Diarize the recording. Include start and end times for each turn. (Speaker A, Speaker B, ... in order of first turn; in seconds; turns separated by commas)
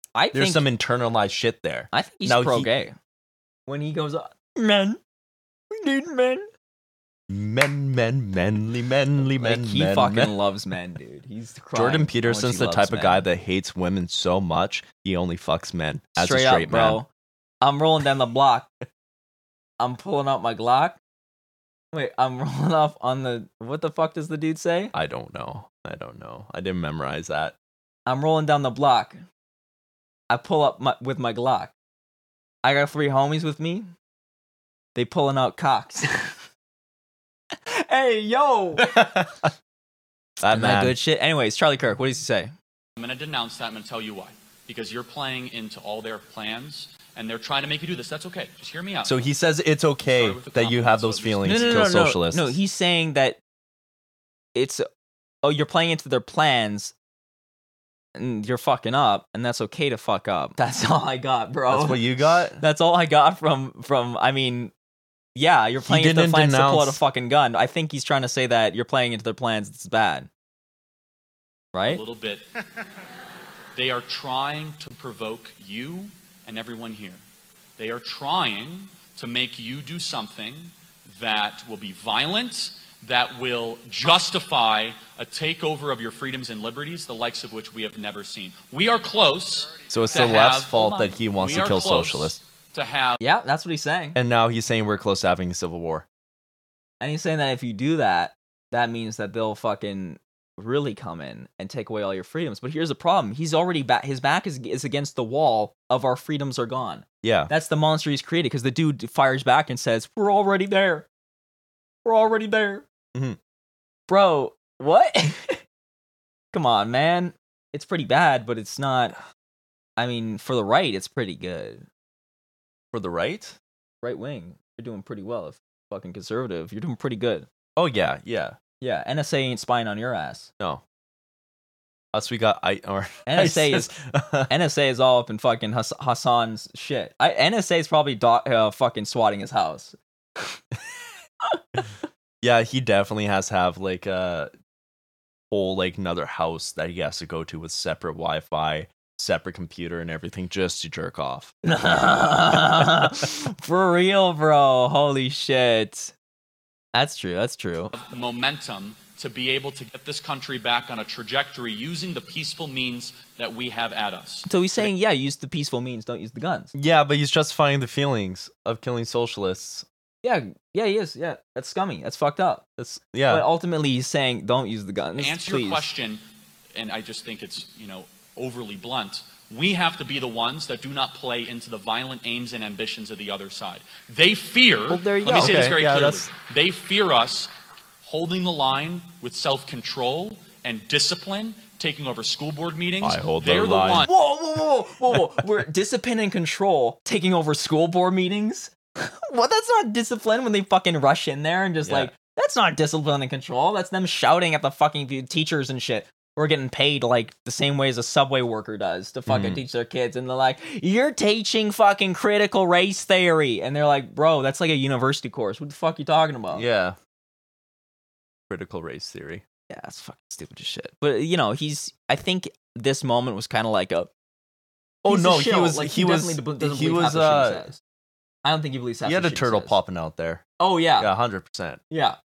Speaker A: 0.2-0.7, Speaker B: 0.3-2.7, Speaker A: 1.9-3.0, Speaker A: 3.7-5.0, Speaker A: 5.7-6.5, Speaker B: 7.3-10.3, Speaker A: 9.4-13.2, Speaker B: 11.7-17.0, Speaker A: 16.2-17.1, Speaker A: 17.6-18.7, Speaker A: 19.8-21.0, Speaker A: 21.9-24.9, Speaker B: 24.9-27.6, Speaker A: 28.1-29.2, Speaker A: 30.3-31.7, Speaker A: 32.6-33.9, Speaker A: 35.0-36.4, Speaker A: 37.5-39.0, Speaker B: 38.8-39.5, Speaker B: 40.4-41.0, Speaker A: 40.5-42.5, Speaker C: 43.0-49.2, Speaker B: 49.0-52.6, Speaker C: 50.1-51.9, Speaker A: 51.5-53.4, Speaker A: 54.5-54.9, Speaker A: 55.4-56.9, Speaker A: 58.2-64.7, Speaker B: 61.7-62.6, Speaker A: 65.3-70.3, Speaker B: 65.8-67.0, Speaker A: 71.7-72.0, Speaker C: 71.8-72.5, Speaker C: 73.8-77.2, Speaker C: 77.8-93.2, Speaker B: 89.9-92.4, Speaker A: 93.2-94.2, Speaker B: 94.2-96.1, Speaker A: 97.0-111.1, Speaker B: 107.2-107.5, Speaker A: 112.0-112.9, Speaker A: 114.1-115.6, Speaker A: 116.5-119.2, Speaker A: 120.0-121.9, Speaker B: 122.9-123.6, Speaker A: 124.0-127.5, Speaker B: 127.8-128.6, Speaker A: 128.8-130.5, Speaker B: 132.1-134.5, Speaker A: 133.3-133.9, Speaker A: 134.5-140.6, Speaker A: 141.5-141.8, Speaker B: 142.4-144.5, Speaker B: 145.5-151.5, Speaker A: 151.6-156.1, Speaker A: 156.9-157.9, Speaker C: 157.9-164.5, Speaker A: 164.5-166.7, Speaker B: 166.7-169.9, Speaker A: 170.2-172.6, Speaker B: 172.8-173.5, Speaker A: 173.3-175.8, Speaker C: 175.2-176.2, Speaker C: 176.8-187.5, Speaker A: 184.9-185.7, Speaker B: 185.3-186.3, Speaker C: 188.0-194.1, Speaker B: 193.0-194.1, Speaker A: 193.9-216.7, Speaker B: 201.8-202.1, Speaker B: 209.3-209.6, Speaker B: 216.5-217.0, Speaker B: 218.5-219.4, Speaker A: 219.7-224.1, Speaker B: 225.0-227.6, Speaker A: 225.1-227.8, Speaker A: 228.4-229.8, Speaker B: 229.1-230.4, Speaker A: 230.6-231.1, Speaker B: 231.0-231.8, Speaker A: 231.9-232.2